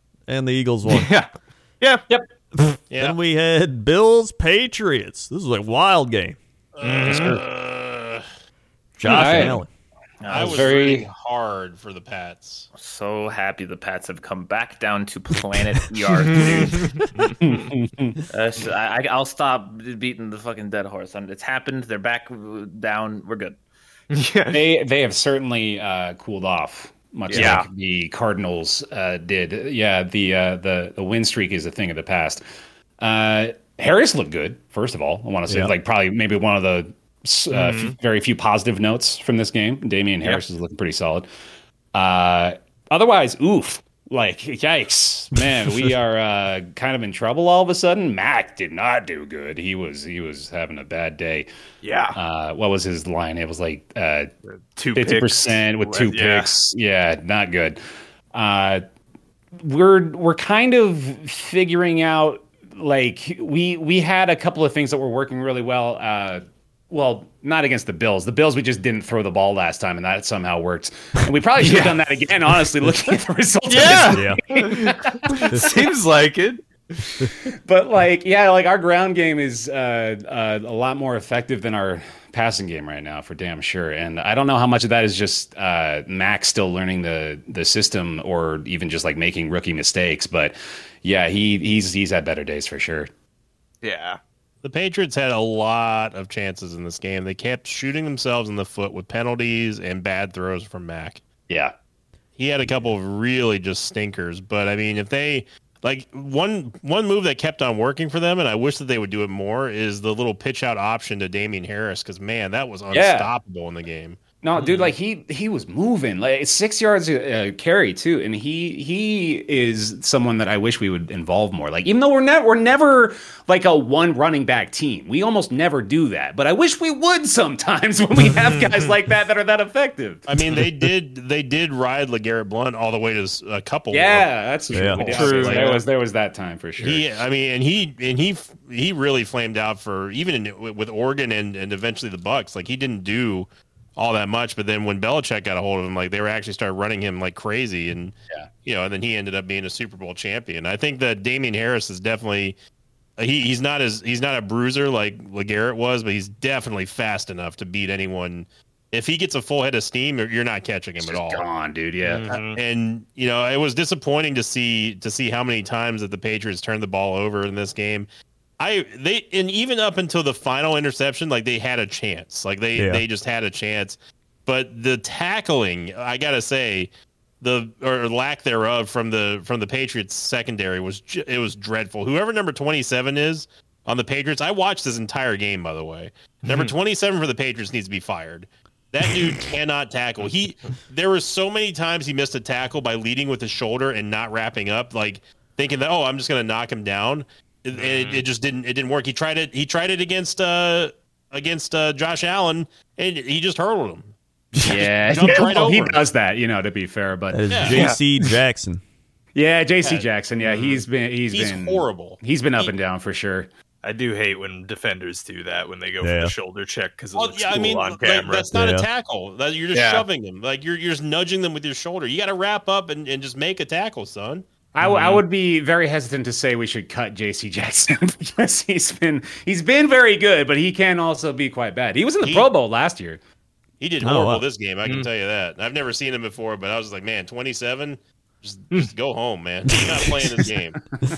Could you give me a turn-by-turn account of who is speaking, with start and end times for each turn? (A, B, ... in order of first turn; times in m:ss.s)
0:00.3-0:01.1 A
0:00.9-0:01.3 B
0:02.6-0:06.4 A
0:02.9-0:03.2 C
0:06.7-0:08.2 C
0:06.8-0:07.4 B
0:07.0-0:07.4 D
0:09.0-0:09.7 A
0:09.0-0:09.6 D
0:10.2-0:10.9 E
0:10.3-0:12.7 C
0:10.3-0:11.1 D
0:12.7-0:17.0 E
0:16.2-0:17.3 B
0:17.4-0:18.2 D
0:18.3-0:23.6 E
0:24.1-0:24.6 B
0:24.5-0:32.4 D
0:27.3-0:27.7 B
0:33.0-0:41.3 D
0:35.5-0:35.7 A
0:37.5-0:38.0 B
0:41.9-0:51.5 D
0:51.8-0:52.2 B
0:52.1-0:54.3 D
0:54.7-0:56.5 B
0:54.9-0:57.8 D
0:58.3-0:58.8 D
0:59.6-1:15.8 D
1:11.6-1:12.0 B
1:13.7-1:16.6 B
1:14.1-1:14.4 A
1:17.4-1:33.1 D
1:33.8-1:34.2 B
1:34.6-1:41.2 C
1:41.5-1:41.7 D
1:42.4-1:54.9 C
1:52.9-1:53.3 D
1:54.4-2:10.3 D
2:10.3-2:15.8 C
2:13.9-2:17.2 D
2:14.7-2:15.2 A
2:15.0-2:15.8 B
2:16.8-2:32.6 C
2:33.2-2:41.4 C
2:41.0-2:42.3 D
2:42.0-2:42.6 B
2:42.1-2:48.1 C
2:48.6-2:56.9 C
2:52.8-2:53.0 A
2:57.4-3:24.1 C
3:06.4-3:06.7 B
3:17.7-3:18.2 B
3:24.6-3:27.4 D
3:24.6-3:26.0 C
3:27.3-3:28.8 A
3:27.5-3:27.8 C
3:27.7-3:28.0 B
3:29.3-3:33.5 D
3:30.4-3:30.8 B
3:31.3-3:32.7 C
3:33.8-3:38.5 B
3:36.0-3:36.3 A
3:37.1-3:44.4 C
3:38.5-3:38.9 A
3:39.7-3:40.0 B
3:44.7-3:53.2 D
3:44.8-3:45.2 B
3:52.2-3:52.5 C
3:53.8-4:00.8 C
3:54.0-3:54.5 A